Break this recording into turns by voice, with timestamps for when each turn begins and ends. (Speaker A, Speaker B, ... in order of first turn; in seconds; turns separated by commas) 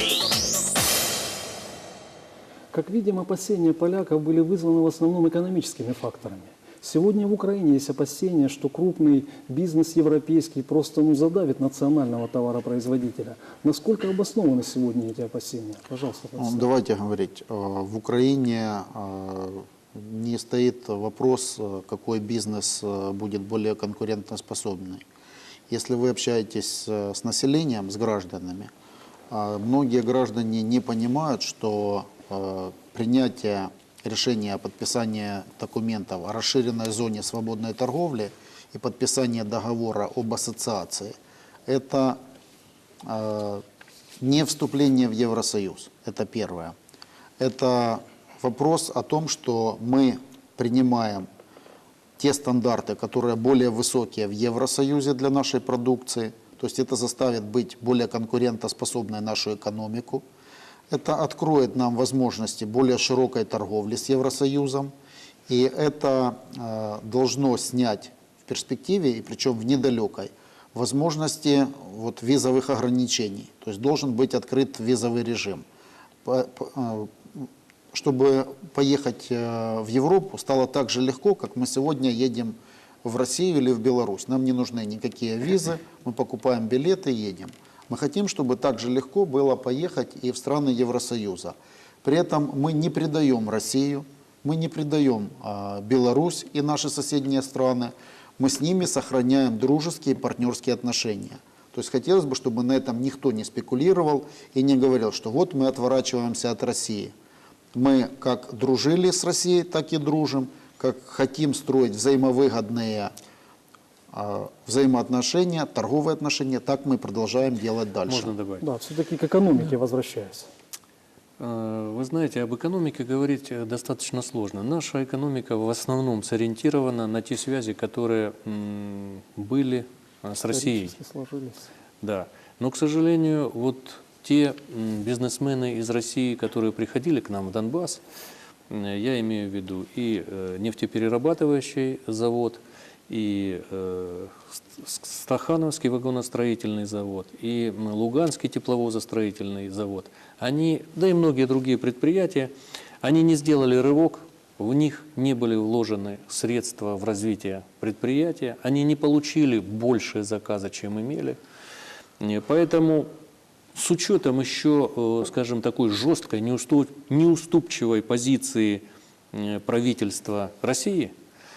Speaker A: 2.7-16.7, Speaker B: 16.4-25.0, Speaker B: 25.7-28.7, Speaker B: 29.3-41.2, Speaker B: 41.7-42.2, Speaker B: 43.0-43.6, Speaker B: 44.2-46.7, Speaker B: 47.4-51.3, Speaker B: 52.2-60.2, Speaker B: 60.9-64.9, Speaker B: 65.5-75.6, Speaker B: 76.3-107.1, Speaker B: 107.7-113.1, Speaker B: 114.1-118.3, Speaker C: 118.1-118.6, Speaker A: 118.6-120.5, Speaker C: 121.4-130.9, Speaker A: 130.5-131.7, Speaker C: 132.0-138.0, Speaker C: 138.7-161.4, Speaker C: 162.2-163.1, Speaker C: 163.8-171.1